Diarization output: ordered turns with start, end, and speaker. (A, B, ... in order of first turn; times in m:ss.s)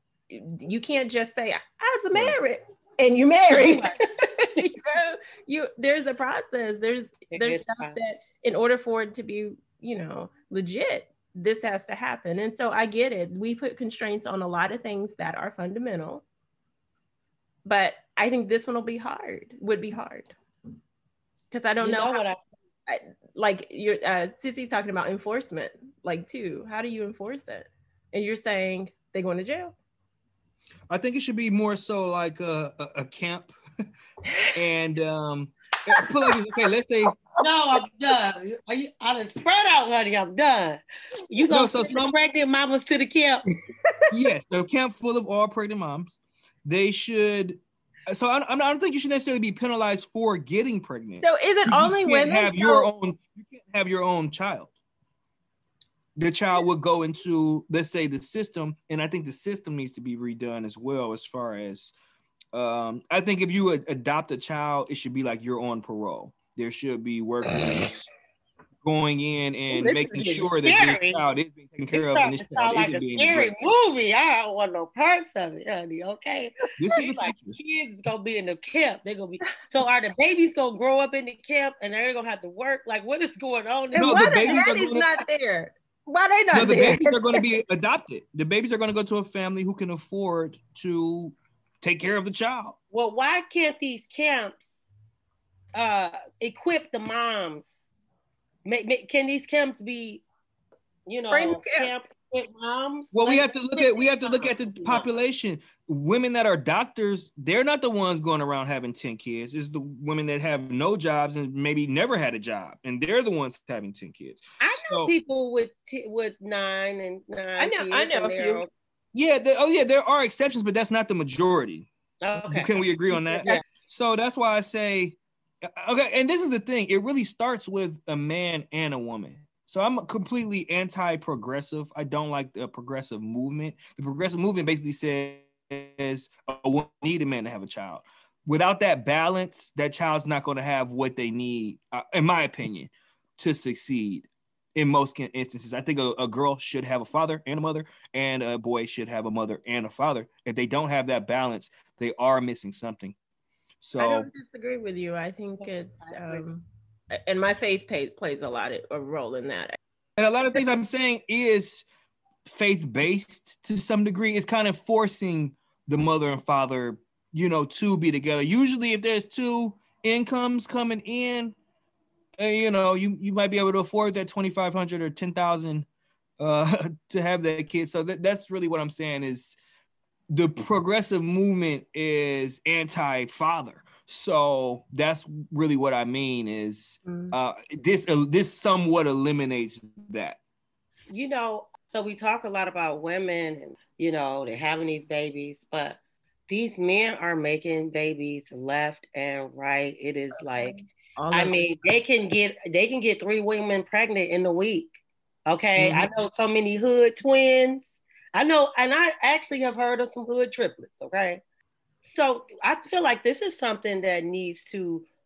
0:00.3-0:16.2 A
0:03.5-0:03.9 B
0:07.3-0:08.0 B
0:17.6-0:20.3 A
0:21.5-0:22.2 A
0:21.8-0:22.4 B
0:22.9-0:29.7 A
0:30.9-0:33.5 C
0:34.5-0:37.2 C
0:37.4-0:43.4 B
0:41.5-0:42.1 C
0:44.1-0:54.7 C
0:51.2-0:52.9 A
0:56.2-1:01.9 C
1:02.5-1:08.1 C
1:08.8-1:13.6 C
1:09.7-1:10.5 A
1:10.6-1:11.2 B
1:11.9-1:24.6 B
1:16.8-1:17.6 C
1:23.9-1:27.4 A
1:24.0-1:25.2 C
1:26.5-1:32.8 C
1:32.9-1:34.6 B
1:35.7-1:37.7 B
1:38.6-1:40.2 B
1:41.0-1:45.1 B
1:41.3-1:41.9 A
1:43.1-1:55.1 C
1:54.6-1:58.7 B
1:57.6-1:58.6 A
1:59.1-2:33.2 C
2:02.2-2:02.7 B
2:03.1-2:03.6 A
2:03.3-2:03.6 B
2:33.8-2:34.3 C
2:34.0-2:39.8 A
2:36.0-2:36.4 B
2:40.2-2:41.8 C
2:42.4-2:51.5 C
2:52.4-2:55.9 C
2:56.4-2:59.6 C
3:00.3-3:10.4 C
3:07.0-3:07.3 A
3:11.1-3:20.8 B
3:20.3-3:21.7 A
3:21.3-3:25.0 B
3:25.5-3:31.4 B
3:25.8-3:26.1 C
3:32.0-3:35.1 B